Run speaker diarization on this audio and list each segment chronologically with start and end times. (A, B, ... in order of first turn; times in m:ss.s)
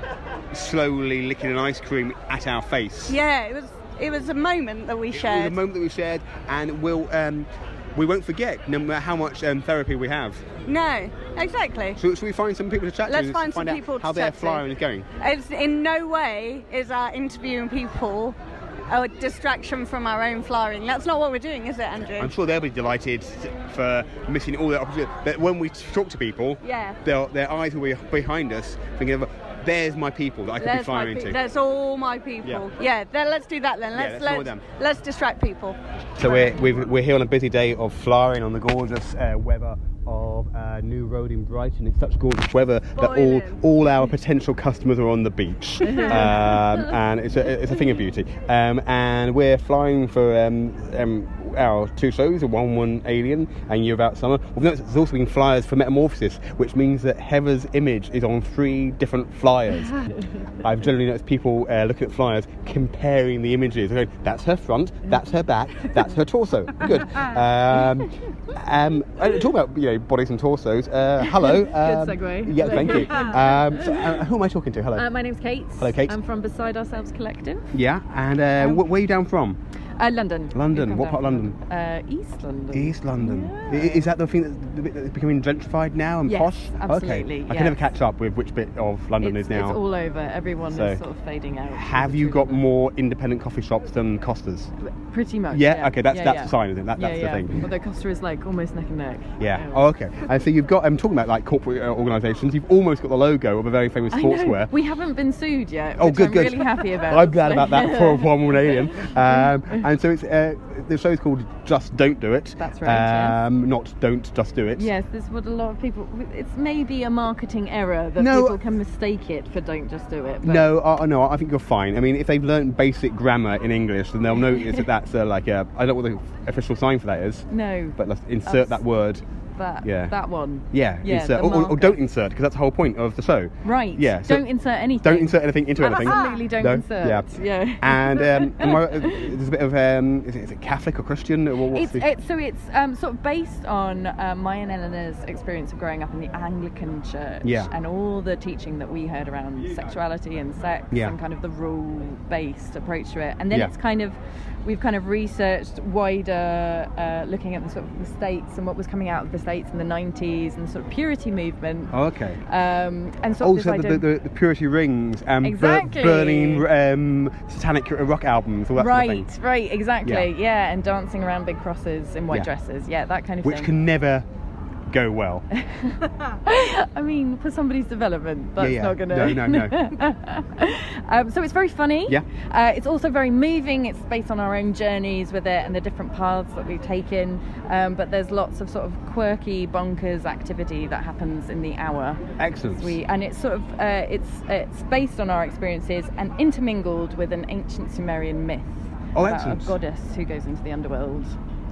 0:00.5-0:03.2 A
0:03.1-0:05.6 B
0:05.1-0:10.5 A
0:10.7-0:12.0 B
0:12.0-0:15.1 A
0:13.0-0:14.6 B
0:15.2-0:22.3 B
0:22.2-0:31.4 A
0:26.6-0:27.0 B
0:30.6-0:36.5 B
0:33.9-0:34.6 A
0:36.2-1:00.0 A
0:43.0-0:43.6 B
0:45.8-0:46.7 C
1:00.6-1:15.0 A
1:07.1-1:07.9 C
1:11.2-1:14.2 C
1:14.9-1:17.7 C
1:15.8-1:16.2 A
1:17.7-1:19.6 A
1:18.6-1:18.8 C
1:20.0-1:24.1 C
1:20.5-1:21.5 A
1:22.7-1:29.8 A
1:26.2-1:27.9 C
1:29.2-1:32.6 C
1:30.7-1:31.0 A
1:31.7-1:34.7 A
1:34.8-1:39.9 C
1:35.5-1:37.6 A
1:39.4-1:44.7 A
1:44.1-1:49.8 C
1:46.0-1:54.9 A
1:52.6-1:53.4 C
1:54.7-2:00.7 C
1:58.2-1:58.6 A
2:00.4-2:07.4 A
2:04.4-2:04.8 C
2:07.5-2:08.8 C
2:08.0-2:09.2 A
2:09.6-2:12.0 C
2:09.8-2:10.1 A
2:10.7-2:14.4 A
2:13.6-2:19.3 C
2:15.0-2:22.1 A
2:21.7-2:42.0 C
2:27.4-2:27.7 A
2:30.9-2:31.2 A
2:41.9-2:42.4 A
2:42.5-2:44.0 C
2:43.4-2:49.3 A
2:45.4-2:46.7 C
2:48.8-2:53.7 C
2:53.4-2:54.3 A
2:54.9-2:55.4 A
2:55.5-3:12.2 C
2:58.6-2:59.8 A
3:12.4-3:13.0 A
3:12.8-3:21.4 C
3:19.1-3:19.7 A